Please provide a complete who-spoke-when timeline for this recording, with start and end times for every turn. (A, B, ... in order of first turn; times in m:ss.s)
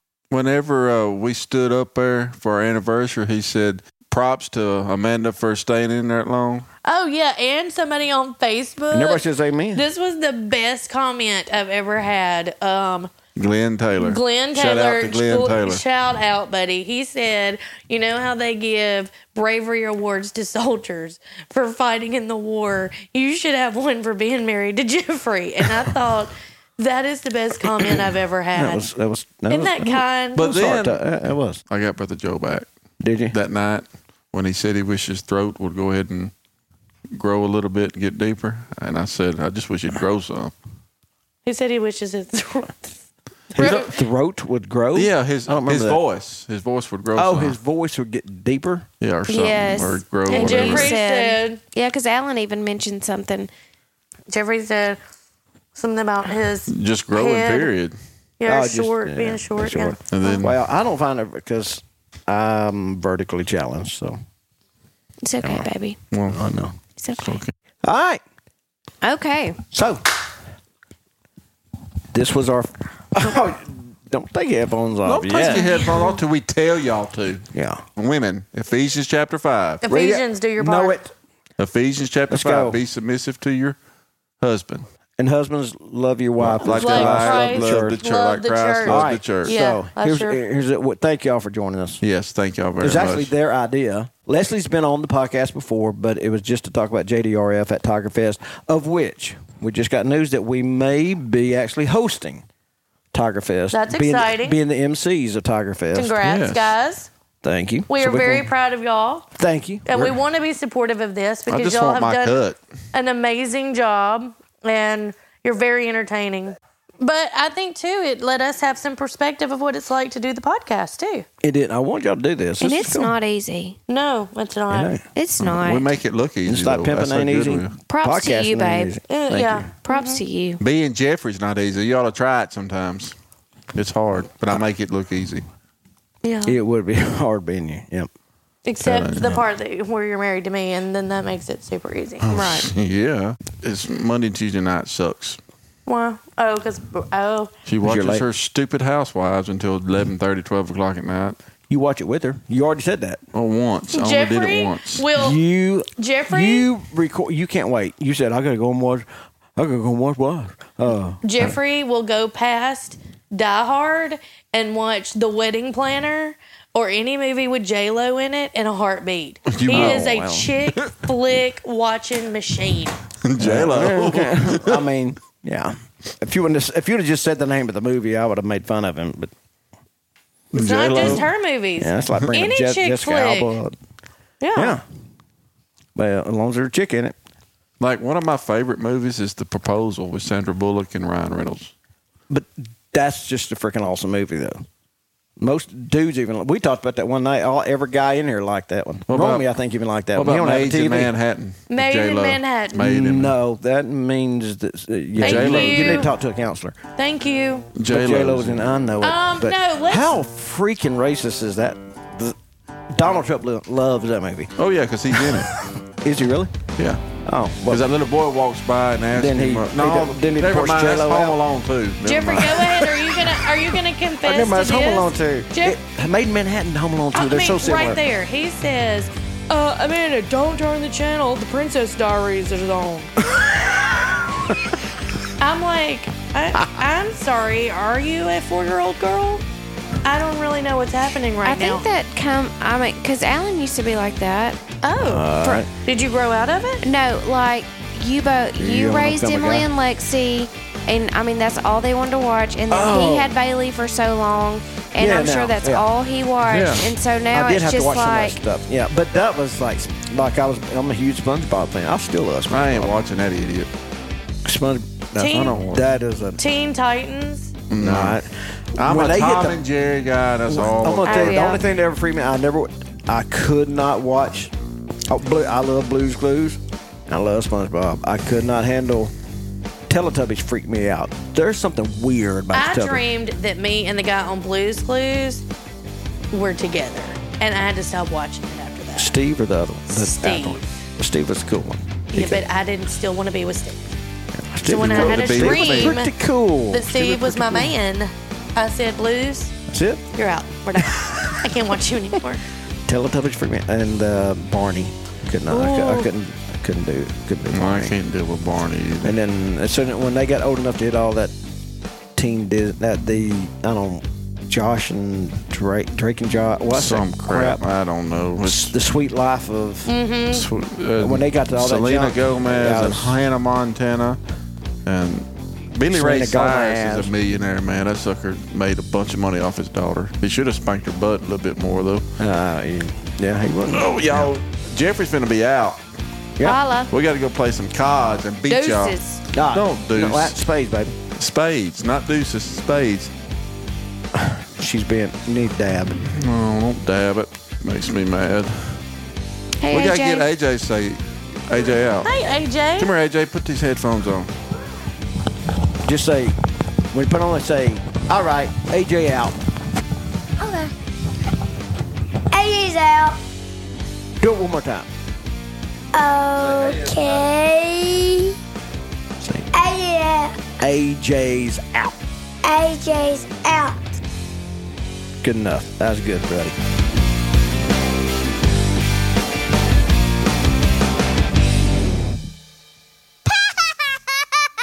0:00.3-0:06.7 A
0:06.8-0:13.1 B
0:08.9-0:09.8 C
0:13.4-0:15.8 A
0:14.0-0:28.9 B
0:28.5-0:31.6 C
0:29.5-0:30.5 B
0:30.4-0:31.0 A
0:31.7-0:32.7 A
0:33.0-0:33.3 C
0:33.3-0:36.3 A
0:37.2-0:40.5 A
0:41.4-0:42.9 B
0:43.5-0:46.0 C
0:43.6-0:43.8 B
0:43.6-0:43.9 A
0:44.9-0:47.6 A
0:47.1-0:48.9 C
0:49.0-0:51.0 A
0:49.3-0:53.5 D
0:50.3-0:51.6 B
0:54.3-0:55.0 B
0:55.7-0:57.7 B
0:56.7-0:58.0 A
0:58.4-1:00.0 B
0:58.4-1:04.2 C
1:00.1-1:00.6 A
1:05.2-1:06.0 D
1:05.4-1:05.7 C
1:06.1-1:06.4 A
1:06.3-1:06.8 C
1:07.0-1:07.3 D
1:07.2-1:07.5 A
1:07.8-1:08.2 C
1:09.0-1:09.6 D
1:09.7-1:10.0 C
1:12.1-1:15.8 C
1:15.0-1:19.8 A
1:15.5-1:16.1 B
1:17.5-1:17.8 C
1:19.8-1:21.0 B
1:19.9-1:21.1 C
1:21.6-1:23.8 A
1:22.3-1:22.8 C
1:24.4-1:24.8 A
1:25.2-1:28.0 C
1:26.4-1:29.6 A
1:26.6-1:30.4 B
1:28.8-1:32.0 C
1:32.0-1:33.3 A
1:32.8-1:42.4 C
1:43.1-1:46.2 C
1:43.7-1:44.6 B
1:45.9-1:47.1 B
1:46.2-1:46.8 A
1:47.4-1:48.5 C
1:47.9-1:49.3 B
1:49.3-1:50.2 C
1:49.8-1:52.4 B
1:51.5-1:52.6 A
1:52.9-2:01.2 B
2:01.4-2:03.2 C
2:02.6-2:03.8 D
2:03.9-2:05.0 B
2:04.7-2:05.0 C
2:05.1-2:05.9 D
2:05.4-2:07.8 A
2:06.4-2:09.7 C
2:07.9-2:08.9 D
2:09.1-2:10.2 B
2:09.9-2:10.6 D
2:10.6-2:13.1 A
2:13.7-2:15.4 A
2:16.2-2:16.6 B
2:16.4-2:18.1 C
2:18.6-2:22.5 B
2:18.8-2:19.4 A
2:22.2-2:25.4 A
2:22.3-2:22.7 D
2:25.8-2:27.5 B
2:27.6-2:31.4 A
2:27.8-2:28.2 C
2:31.7-2:33.2 C
2:33.3-2:35.1 A
2:33.9-2:35.4 B
2:35.1-2:41.5 C
2:36.0-2:36.7 B
2:41.2-2:53.0 B
2:49.5-2:50.1 A
2:49.7-2:50.5 C
2:53.2-2:54.8 A
2:53.4-2:59.3 C
3:00.5-3:01.3 A
3:00.5-3:03.5 B
3:01.0-3:03.8 C
3:04.4-3:04.8 B
3:04.5-3:04.8 C
3:05.9-3:07.2 C
3:07.8-3:11.7 A
3:12.3-3:14.6 C
3:15.4-3:21.1 C
3:19.1-3:19.5 A
3:20.1-3:23.3 A
3:21.7-3:22.8 B
3:22.7-3:26.8 C
3:25.2-3:26.1 B
3:25.2-3:26.1 A
3:27.0-3:27.7 B
3:27.8-3:28.7 A
3:27.9-3:32.4 C
3:29.0-3:30.1 B
3:32.9-3:34.5 C
3:34.6-3:35.5 A
3:35.1-3:36.5 C
3:36.8-3:37.0 A
3:37.2-3:37.8 C
3:37.7-3:42.8 A
3:39.1-3:41.4 C
3:42.0-3:45.8 B
3:44.2-3:48.0 C
3:47.1-3:53.1 B
3:53.2-3:54.7 C
3:55.4-3:59.4 B
4:00.0-4:01.9 B
4:01.4-4:04.6 D
4:04.8-4:05.3 B
4:05.0-4:05.7 C
4:05.8-4:06.8 B
4:06.8-4:18.4 D
4:08.6-4:09.7 C
4:12.7-4:13.3 C
4:15.0-4:15.9 C
4:16.5-4:16.9 A
4:17.3-4:22.9 C
4:22.5-4:23.7 A
4:24.4-4:26.4 C
4:25.2-4:25.6 B
4:25.2-4:25.8 A
4:26.4-4:27.5 B
4:27.7-4:28.2 A
4:27.8-4:29.6 C
4:28.8-4:31.5 A
4:30.5-4:34.5 C
4:31.0-4:31.6 D
4:35.1-4:39.1 C
4:39.9-4:43.0 C
4:42.5-4:45.4 B
4:46.3-4:49.2 B
4:49.0-4:52.4 C
4:49.9-4:50.6 B
4:52.1-4:53.8 B
4:54.4-4:57.8 C
4:54.7-4:56.1 B
4:54.7-4:56.0 A
4:56.7-4:59.5 B
4:59.7-5:00.0 C
5:00.1-5:02.4 B
5:00.8-5:01.4 C
5:02.9-5:08.0 C
5:05.5-5:06.1 B
5:07.5-5:09.2 A
5:09.0-5:11.3 C
5:12.2-5:17.6 C
5:16.7-5:18.7 A
5:18.4-5:19.9 C
5:19.8-5:20.5 B
5:20.3-5:24.2 A
5:21.0-5:23.2 C
5:24.8-5:32.0 A
5:25.9-5:27.1 C
5:32.2-5:34.3 C
5:33.7-5:35.8 A
5:36.4-5:36.9 D
5:36.9-5:39.0 A
5:38.5-5:39.2 D
5:39.3-5:40.9 C
5:39.5-5:40.4 A
5:41.2-5:43.1 A
5:44.1-5:46.0 C
5:46.0-5:48.8 A
5:49.6-5:50.3 D
5:49.7-5:52.1 A
5:52.0-5:52.9 B
5:52.8-5:54.3 A
5:55.8-5:56.4 C
5:56.9-5:59.4 C
6:00.4-6:00.7 D
6:02.3-6:03.2 E
6:04.2-6:04.9 C
6:05.9-6:08.3 E
6:09.2-6:09.5 C
6:09.5-6:10.6 E
6:10.6-6:12.0 C
6:12.4-6:13.8 E
6:15.2-6:16.6 C
6:23.2-6:24.1 E